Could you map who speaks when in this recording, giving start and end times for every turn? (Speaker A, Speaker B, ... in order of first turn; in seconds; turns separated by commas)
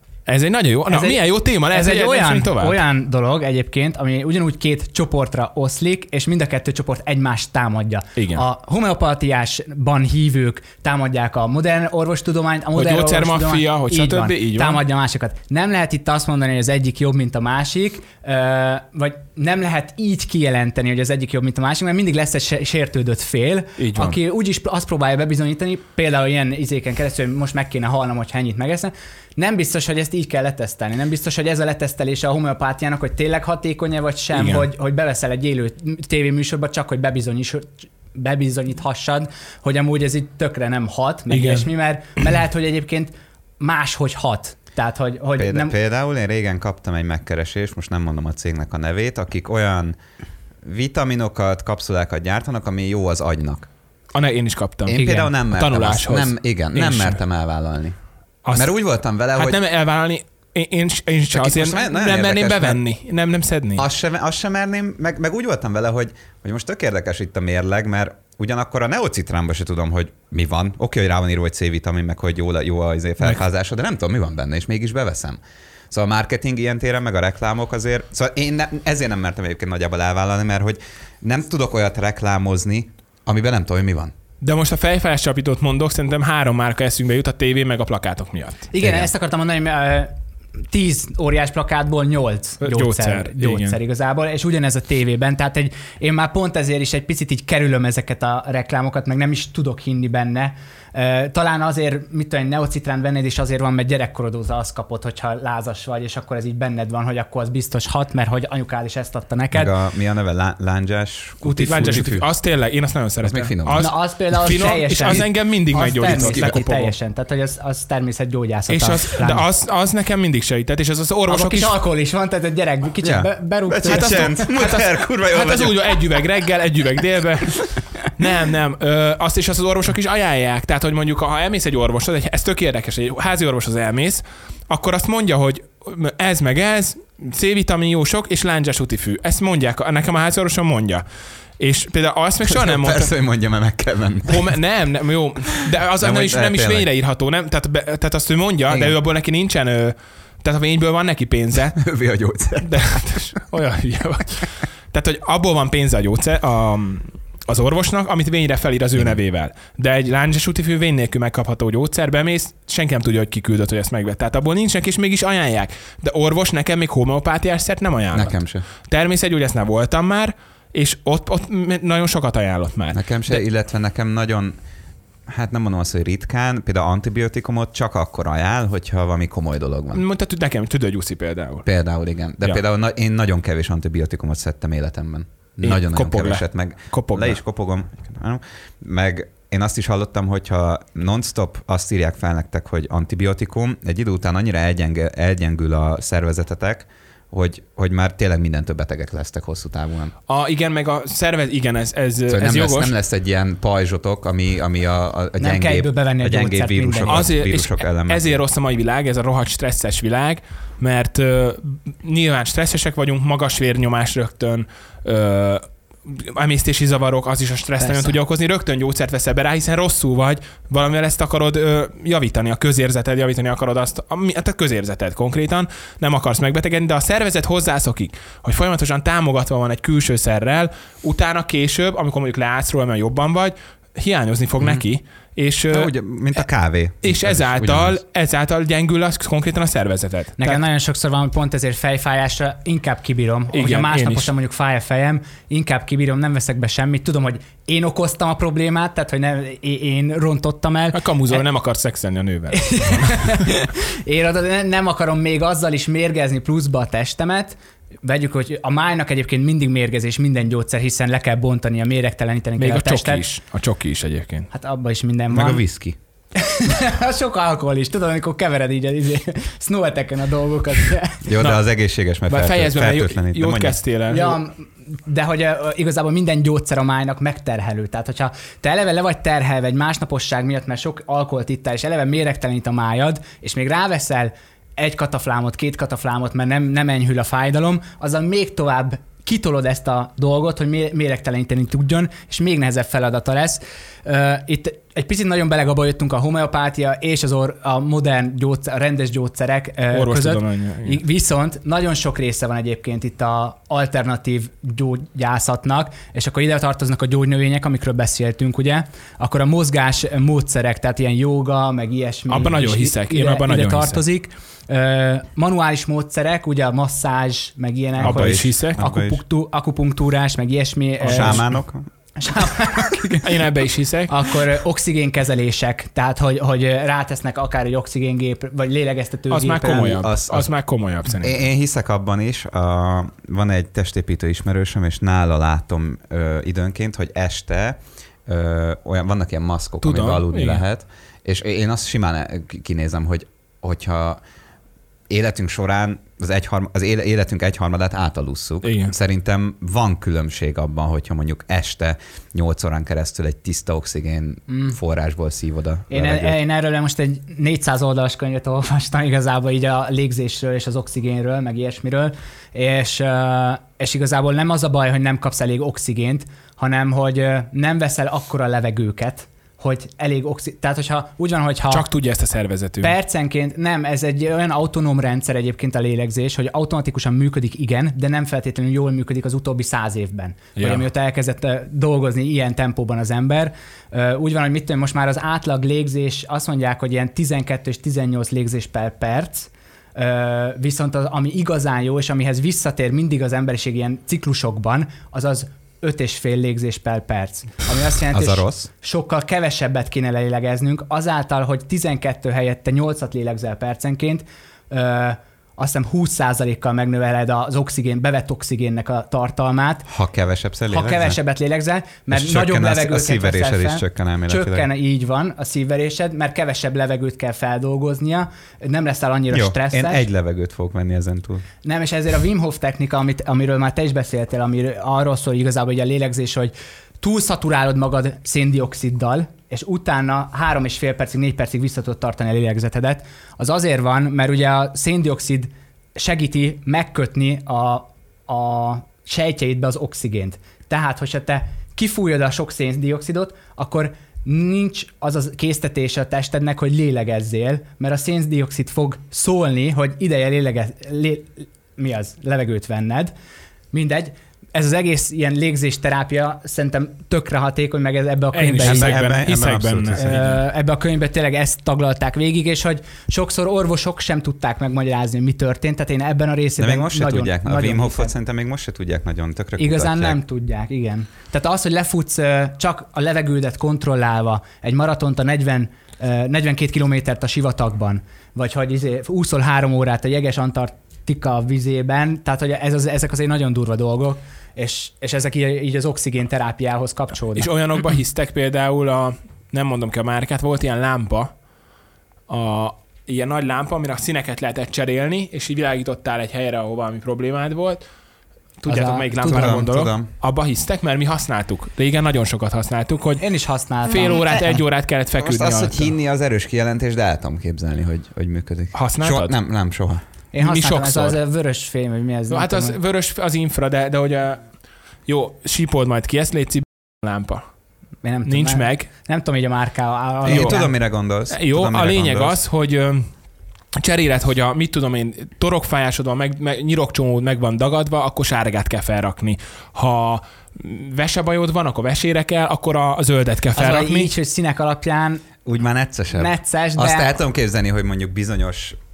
Speaker A: 0.3-2.8, Speaker B: 0.9-45.7, Speaker A: 8.2-8.4, Speaker A: 12.7-14.8, Speaker A: 23.8-24.2, Speaker A: 34.3-34.7, Speaker A: 41.3-41.7, Speaker C: 45.4-50.0, Speaker C: 50.6-53.7, Speaker A: 54.1-57.2, Speaker C: 54.9-58.0, Speaker A: 58.4-58.7, Speaker C: 58.5-59.6, Speaker A: 59.3-63.9, Speaker C: 61.3-62.8, Speaker C: 63.8-75.4, Speaker C: 75.9-84.1, Speaker A: 84.4-88.7, Speaker B: 88.7-90.1, Speaker B: 90.7-109.7, Speaker A: 92.6-93.8, Speaker C: 109.5-112.3, Speaker A: 111.4-116.9, Speaker C: 113.2-113.8, Speaker B: 113.8-119.4, Speaker C: 116.0-116.5, Speaker A: 118.7-121.7, Speaker B: 121.3-124.5, Speaker C: 123.0-126.2, Speaker A: 123.8-141.0, Speaker A: 141.6-143.1, Speaker C: 142.4-144.5, Speaker A: 144.2-151.8, Speaker C: 145.7-146.9, Speaker C: 148.7-149.0, Speaker C: 151.8-153.3, Speaker A: 152.6-173.4, Speaker C: 168.1-168.6, Speaker C: 172.9-174.6, Speaker C: 175.3-180.0, Speaker A: 179.9-181.7, Speaker C: 181.7-200.1, Speaker A: 185.6-187.4, Speaker A: 200.3-202.9, Speaker C: 202.3-208.4, Speaker B: 205.4-207.3, Speaker A: 207.1-235.9, Speaker B: 217.8-218.2, Speaker C: 235.7-238.0, Speaker A: 237.0-240.6, Speaker B: 240.4-251.4, Speaker A: 243.5-244.3, Speaker A: 250.9-253.5, Speaker B: 252.5-263.2, Speaker A: 262.6-264.5, Speaker B: 264.5-265.6, Speaker C: 265.3-265.9, Speaker B: 266.3-271.2, Speaker C: 271.2-273.8, Speaker A: 272.3-274.4, Speaker B: 274.1-321.5, Speaker A: 299.9-301.0, Speaker A: 312.3-314.0, Speaker C: 318.0-319.2, Speaker A: 318.0-318.8, Speaker C: 321.1-321.9, Speaker A: 321.1-321.4, Speaker B: 322.2-323.4, Speaker A: 323.2-324.1, Speaker B: 324.1-330.0, Speaker A: 329.3-331.4, Speaker C: 330.0-330.5, Speaker C: 331.2-344.2, Speaker A: 339.8-340.6, Speaker C: 345.1-356.4, Speaker A: 348.6-348.9, Speaker B: 354.5-354.8, Speaker B: 355.9-371.9, Speaker A: 371.7-372.9, Speaker B: 372.8-409.9, Speaker A: 380.6-380.8, Speaker C: 398.1-398.7, Speaker C: 409.9-411.2, Speaker B: 410.7-420.1, Speaker C: 412.1-414.7, Speaker C: 419.3-421.4, Speaker B: 421.6-453.1, Speaker B: 453.7-459.1, Speaker A: 458.3-460.1, Speaker C: 458.6-460.4, Speaker B: 459.9-468.1, Speaker C: 466.6-470.2, Speaker B: 469.6-487.5, Speaker A: 487.4-491.3, Speaker A: 492.3-497.8, Speaker A: 498.6-503.2, Speaker B: 498.7-499.6, Speaker C: 499.2-500.1, Speaker B: 503.2-504.6, Speaker A: 503.8-505.9, Speaker C: 505.2-510.0, Speaker A: 508.7-509.4, Speaker B: 510.3-512.8, Speaker A: 510.4-511.2, Speaker A: 512.3-514.4, Speaker A: 515.1-517.4, Speaker B: 518.0-520.7, Speaker A: 518.3-518.9, Speaker C: 520.2-522.4, Speaker A: 520.2-520.6, Speaker A: 521.3-523.1, Speaker A: 523.8-534.1, Speaker B: 533.5-535.2, Speaker C: 535.4-538.8, Speaker B: 536.1-537.1